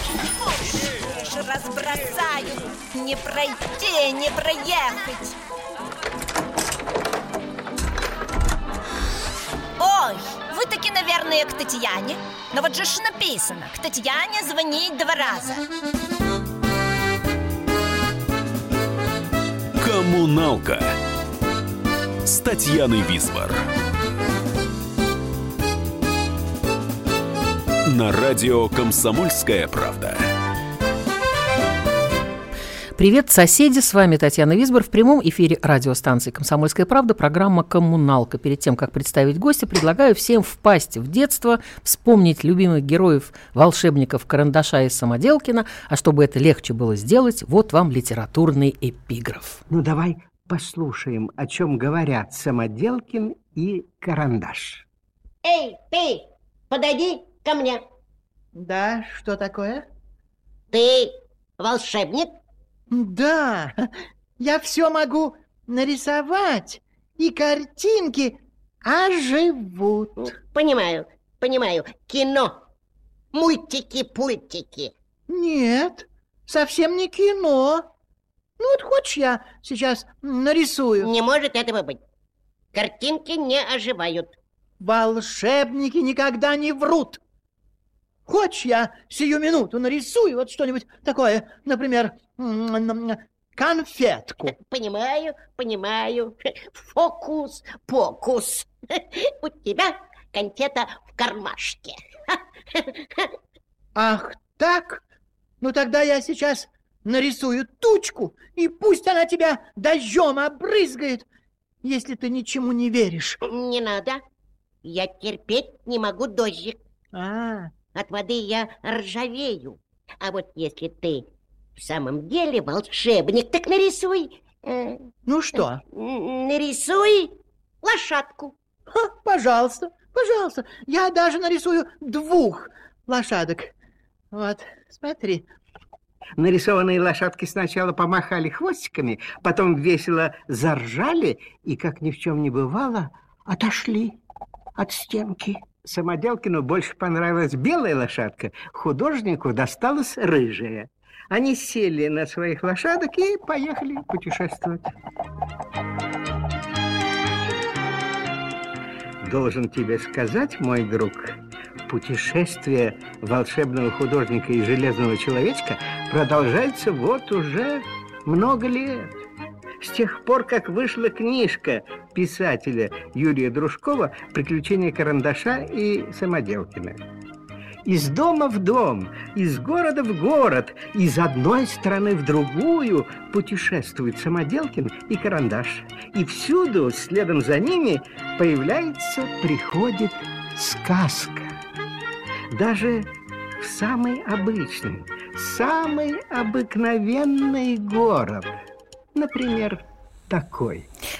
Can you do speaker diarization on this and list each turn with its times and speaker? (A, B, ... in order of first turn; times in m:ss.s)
0:00.4-0:05.4 A
0:09.8-0:15.6 A
0:19.8-0:20.9 B
0:22.2-0:23.6 B
0:27.8-0:30.2 B
0:33.0-0:49.6 C
0:49.7-0:54.8 D
0:55.4-0:57.8 E
0:58.5-0:59.8 F
1:00.7-1:02.3 E
1:02.9-1:03.8 F
1:04.4-1:10.2 F
1:10.2-1:12.6 E
1:13.3-1:14.9 E
1:15.3-1:17.8 F
1:18.6-1:21.1 F
1:21.0-1:22.0 E
1:22.7-1:24.3 E
1:24.8-1:27.2 F
1:28.3-1:34.5 F
1:34.5-1:43.3 E
1:44.0-1:45.0 F
1:45.6-1:51.2 F
1:51.8-1:53.4 F
1:53.4-1:54.2 E
1:54.8-1:56.8 E
1:57.1-1:57.7 F
1:57.9-2:05.1 E
2:05.2-2:05.8 F
2:05.9-2:08.5 E
2:08.9-2:13.7 F
2:14.3-2:15.4 F
2:16.4-2:24.2 D
2:24.8-2:34.9 D
2:39.2-2:41.2 D
2:41.8-2:49.2 D
2:49.8-2:57.0 D
2:57.8-3:11.6 D
3:12.5-3:13.1 D
3:13.6-3:18.6 D
3:19.1-3:20.8 D